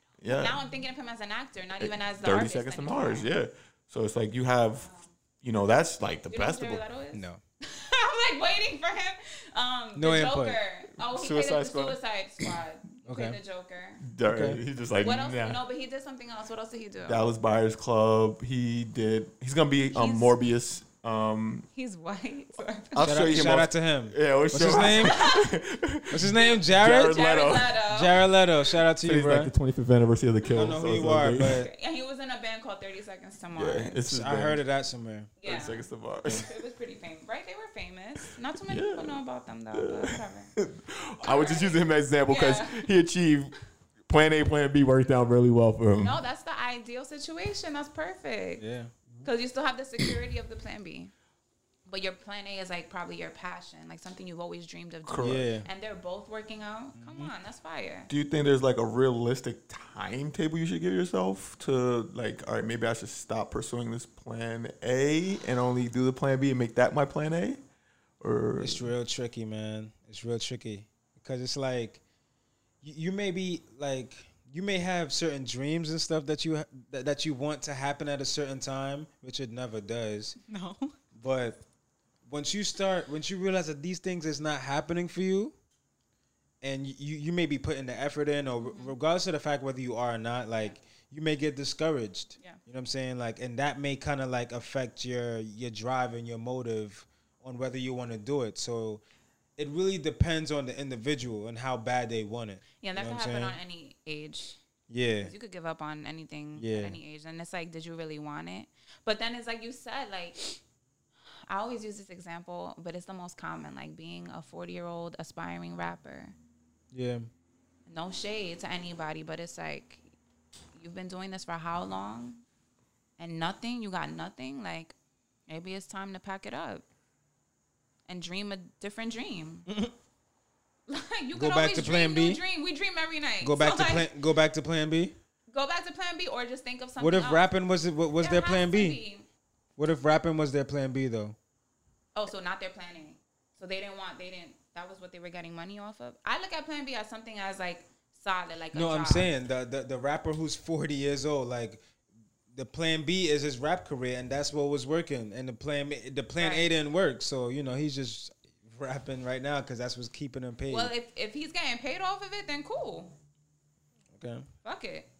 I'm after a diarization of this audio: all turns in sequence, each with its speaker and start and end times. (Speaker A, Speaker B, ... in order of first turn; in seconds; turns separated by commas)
Speaker A: 0.2-0.6, Speaker B: 0.2-3.3, Speaker A: 1.8-4.9, Speaker B: 4.8-5.1, Speaker A: 5.4-6.8, Speaker B: 6.3-14.0, Speaker C: 7.1-7.4, Speaker C: 9.9-10.6, Speaker A: 11.0-12.5, Speaker C: 13.1-13.4, Speaker A: 14.0-15.6, Speaker C: 14.3-14.6, Speaker B: 15.0-17.3, Speaker A: 17.0-21.7, Speaker B: 19.9-20.3, Speaker B: 21.7-23.1, Speaker A: 22.9-27.8, Speaker C: 23.0-25.2, Speaker B: 24.7-25.5, Speaker C: 26.1-27.2, Speaker B: 26.3-28.2, Speaker C: 27.9-29.5, Speaker A: 29.0-31.6, Speaker C: 30.5-31.7, Speaker B: 31.5-34.0, Speaker A: 33.5-34.6, Speaker C: 34.1-35.3, Speaker B: 35.4-40.5, Speaker A: 35.4-36.5, Speaker A: 38.7-39.2, Speaker A: 39.7-43.5, Speaker B: 41.2-42.9, Speaker A: 44.1-46.2, Speaker B: 46.0-48.6, Speaker C: 48.6-48.9, Speaker B: 49.2-51.1, Speaker B: 51.9-58.1, Speaker A: 55.0-55.5, Speaker C: 55.2-55.7, Speaker C: 57.0-57.3, Speaker A: 58.1-67.6, Speaker A: 68.2-68.9, Speaker C: 68.6-72.0, Speaker C: 72.8-80.4, Speaker B: 80.4-81.0, Speaker C: 81.1-81.6, Speaker C: 82.2-85.5, Speaker C: 86.6-99.0, Speaker B: 88.6-88.9, Speaker C: 99.6-103.6, Speaker B: 102.8-104.6, Speaker C: 104.9-105.3, Speaker B: 105.2-110.5, Speaker C: 106.6-107.0, Speaker B: 111.5-116.3, Speaker C: 116.9-117.3, Speaker B: 117.9-120.1, Speaker B: 120.7-122.4, Speaker B: 123.2-125.0, Speaker B: 125.5-126.8, Speaker B: 128.1-129.7, Speaker C: 129.7-129.9, Speaker B: 130.9-134.1, Speaker C: 131.3-132.4, Speaker C: 133.4-135.2, Speaker B: 135.5-137.5, Speaker C: 137.0-139.0, Speaker B: 138.2-139.2, Speaker C: 139.8-141.3, Speaker B: 142.1-149.3, Speaker C: 148.7-151.8, Speaker C: 152.5-160.9, Speaker B: 156.4-156.7, Speaker B: 160.7-163.1, Speaker C: 164.2-164.5, Speaker B: 164.6-165.1